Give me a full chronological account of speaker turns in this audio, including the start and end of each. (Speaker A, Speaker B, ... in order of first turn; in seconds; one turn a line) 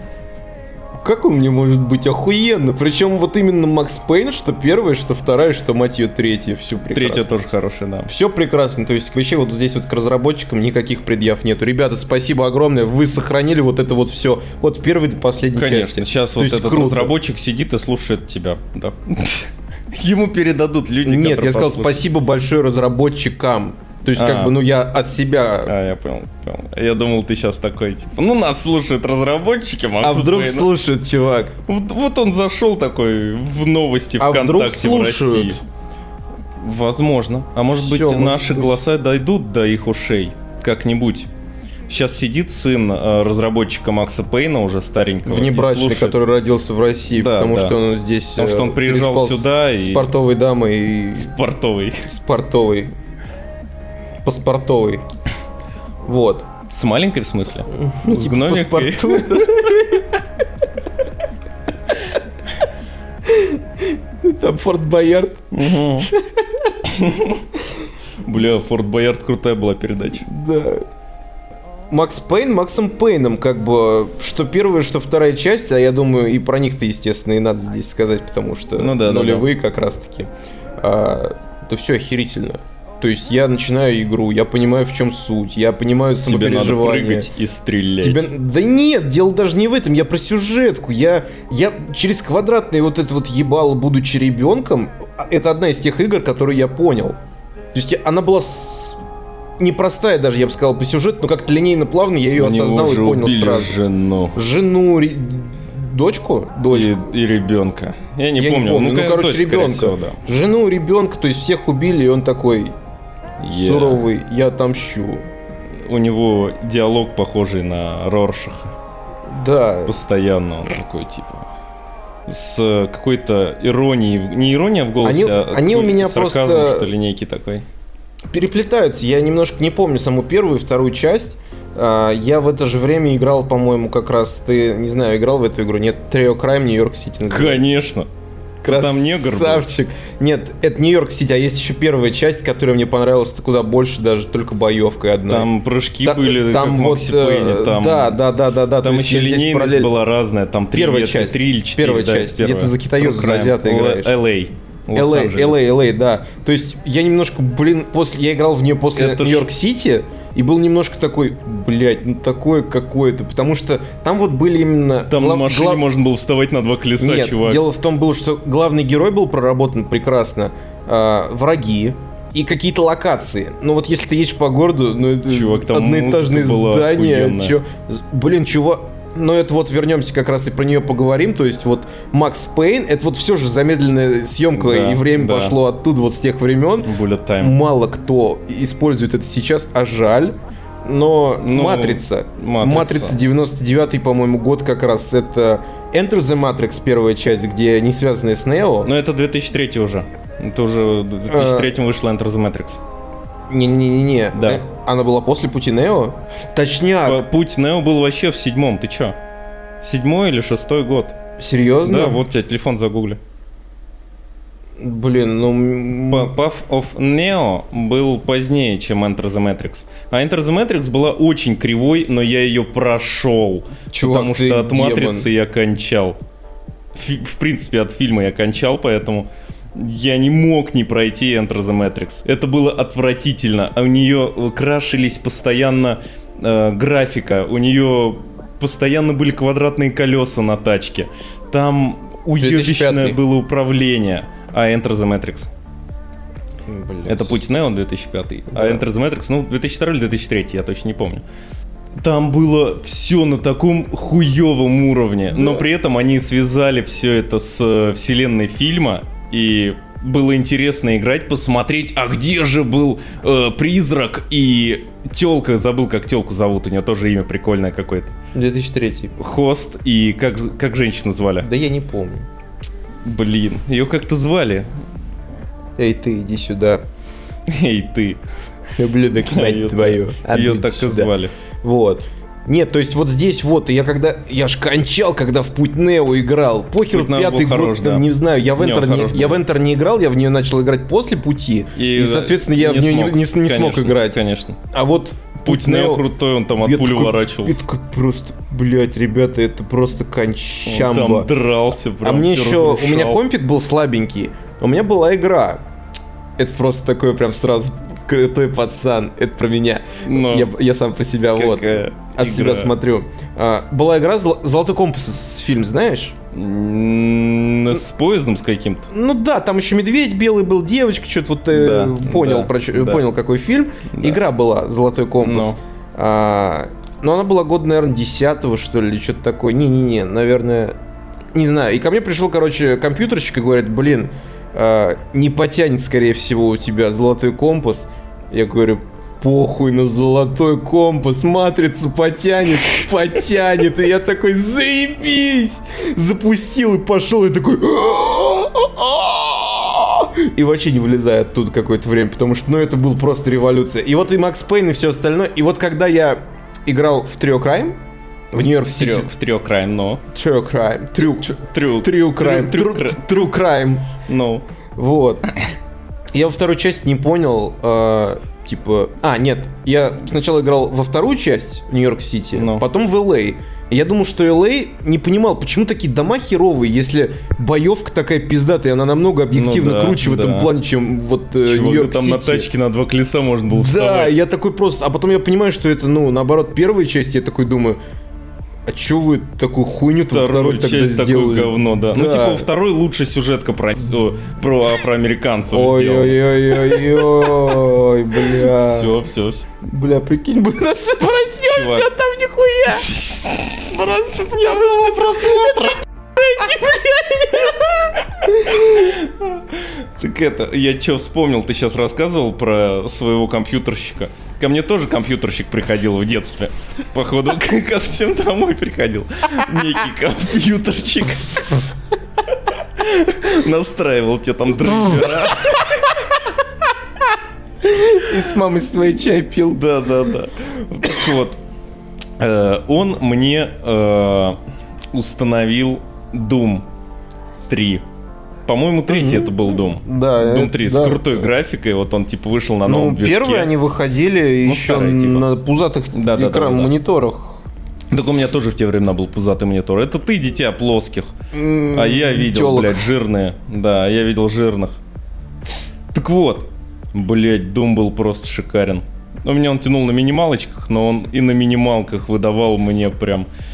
Speaker A: 1.0-7.3
Speaker B: 6.9-8.1
Speaker A: 8.1-17.1
Speaker B: 15.6-22.0
Speaker A: 21.0-25.7
Speaker B: 24.1-24.5
Speaker B: 25.6-30.7
Speaker A: 30.0-31.5
Speaker B: 31.7-35.6
Speaker A: 34.2-35.6
Speaker B: 36.6-41.3
Speaker A: 37.7-38.8
Speaker B: 41.9-46.2
Speaker A: 45.2-51.3
Speaker B: 47.1-47.8
Speaker B: 48.4-50.1
Speaker B: 51.1-52.1
Speaker A: 52.0-52.9
Speaker A: 54.2-55.0
Speaker A: 56.0-56.5
Speaker B: 56.7-59.8
Speaker A: 57.7-60.2
Speaker A: 63.2-65.5
Speaker B: 65.5-66.1
Speaker A: 66.1-66.7
Speaker B: 66.8-67.4
Speaker B: 68.2-70.3
Speaker A: 70.2-70.8
Speaker A: 71.9-87.3
Speaker B: 78.8-79.5
Speaker B: 86.2-88.3
Speaker A: 88.0-97.2
Speaker A: 97.7-99.0
Speaker A: 99.6-103.8
Speaker B: 102.4-104.4
Speaker A: 104.3-107.1
Speaker B: 106.7-110.2
Speaker A: 108.4-112.8
Speaker B: 113.4-114.0
Speaker A: 113.5-115.2
Speaker B: 115.8-118.7
Speaker A: 119.3-120.0
Speaker B: 119.9-121.5
Speaker B: 122.3-127.6
Speaker A: 125.0-126.9
Speaker A: 128.3-137.8
Speaker B: 137.3-138.1
Speaker B: 138.6-139.7
Speaker A: 138.6-145.5
Speaker B: 145.3-148.2
Speaker A: 146.0-149.9
Speaker B: 148.8-155.7
Speaker A: 150.7-154.2
Speaker A: 154.9-165.8
Speaker B: 158.9-159.5
Speaker B: 165.1-167.6
Speaker A: 167.0-198.9
Speaker B: 175.3-177.6
Speaker B: 184.6-185.6
Speaker B: 186.8-187.6
Speaker B: 191.4-193.2
Speaker B: 198.8-202.8
Speaker A: 201.3-201.7
Speaker A: 203.5-207.2
Speaker B: 204.3-204.6
Speaker B: 207.0-209.2
Speaker B: 209.8-211.2
Speaker A: 211.4-212.2
Speaker B: 211.8-213.2
Speaker A: 214.8-216.3
Speaker B: 216.1-226.2
Speaker A: 223.9-225.3
Speaker B: 226.9-245.5
Speaker A: 242.4-243.2
Speaker A: 246.6-247.4
Speaker B: 247.1-251.2
Speaker A: 248.5-248.8
Speaker B: 252.0-268.2
Speaker A: 255.3-255.6
Speaker A: 268.3-269.1
Speaker B: 269.2-271.5
Speaker A: 271.4-272.3
Speaker B: 273.0-274.7
Speaker A: 275.8-276.8
Speaker B: 277.5-278.2
Speaker A: 278.8-294.2
Speaker B: 279.2-281.3
Speaker B: 286.9-289.4
Speaker B: 291.8-294.6
Speaker A: 294.7-296.0
Speaker B: 295.4-297.6
Speaker A: 296.6-301.3
Speaker B: 300.6-303.2
Speaker A: 302.0-305.6
Speaker A: 306.4-316.2
Speaker B: 310.0-310.5
Speaker B: 311.3-312.7
Speaker B: 316.3-318.9
Speaker A: 318.9-330.8
Speaker B: 321.5-323.0
Speaker B: 323.9-324.2
Speaker B: 325.2-325.6
Speaker A: 331.3-357.8
Speaker A: 358.3-359.1
Speaker B: 358.7-360.0
Speaker A: 360.1-363.9
Speaker B: 361.2-363.0
Speaker B: 364.1-364.4
Speaker A: 364.8-365.3
Speaker A: 366.1-382.5
Speaker B: 372.3-372.6
Speaker B: 379.3-380.5
Speaker B: 381.4-384.2
Speaker A: 383.5-387.8
Speaker A: 388.7-392.5
Speaker B: 390.1-396.8
Speaker A: 395.5-399.0
Speaker B: 398.3-399.5
Speaker A: 399.6-403.0
Speaker B: 401.4-401.9
Speaker B: 402.8-403.8
Speaker A: 403.6-409.0
Speaker B: 408.6-421.7
Speaker B: 422.5-425.9
Speaker A: 427.6-429.6
Speaker B: 429.5-431.4
Speaker B: 432.2-434.4
Speaker B: 434.9-436.7
Speaker B: 437.5-437.8
Speaker B: 438.5-443.5
Speaker A: 438.9-441.3
Speaker A: 442.7-447.4
Speaker B: 444.4-445.3
Speaker B: 445.9-446.7
Speaker B: 447.9-451.1
Speaker A: 451.3-452.9
Speaker B: 451.7-454.8
Speaker B: 455.9-463.3